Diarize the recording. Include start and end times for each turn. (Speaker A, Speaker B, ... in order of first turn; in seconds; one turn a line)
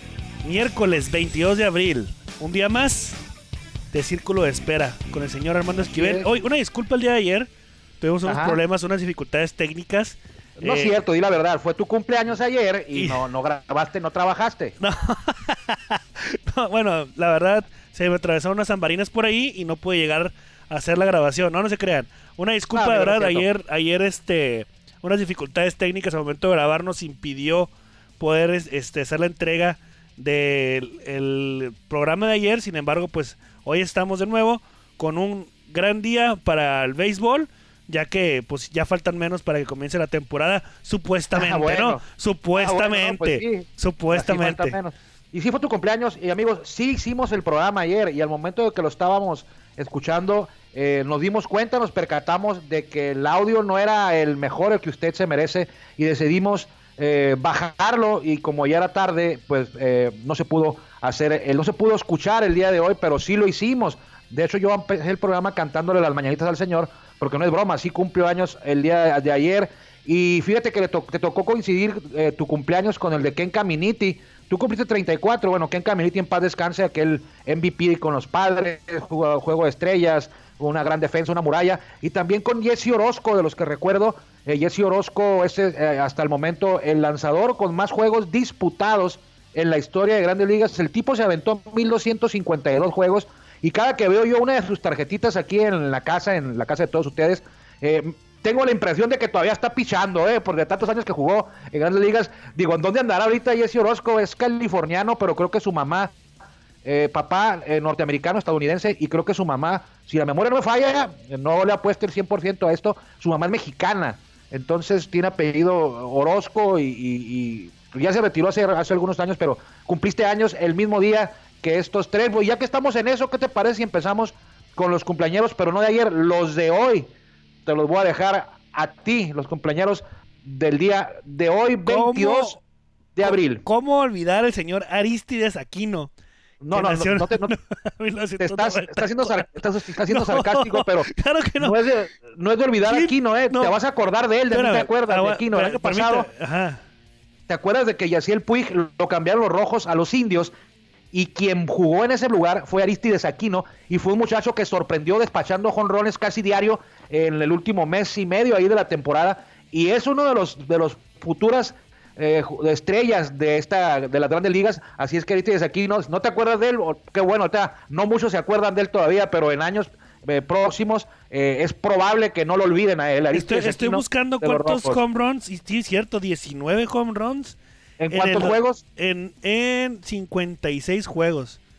Speaker A: 0.4-3.2
Speaker A: 3.9-10.9
Speaker B: 6.0-6.3
Speaker B: 8.2-8.6
Speaker B: 10.6-14.8
Speaker A: 12.9-13.2
Speaker A: 14.8-44.8
Speaker B: 22.7-23.4
Speaker B: 41.3-42.0
Speaker B: 42.5-106.2
Speaker B: 106.8-127.1
Speaker B: 127.7-132.6
Speaker A: 131.8-132.6
Speaker B: 133.1-133.6
Speaker A: 133.2-136.1
Speaker B: 136.6-137.5
Speaker A: 136.7-139.5
Speaker B: 138.4-146.3
Speaker A: 140.1-141.8
Speaker A: 142.8-143.7
Speaker A: 144.5-146.8
Speaker B: 147.5-150.5
Speaker B: 151.1-175.0
Speaker A: 173.3-177.6
Speaker B: 178.0-178.8
Speaker A: 178.1-181.6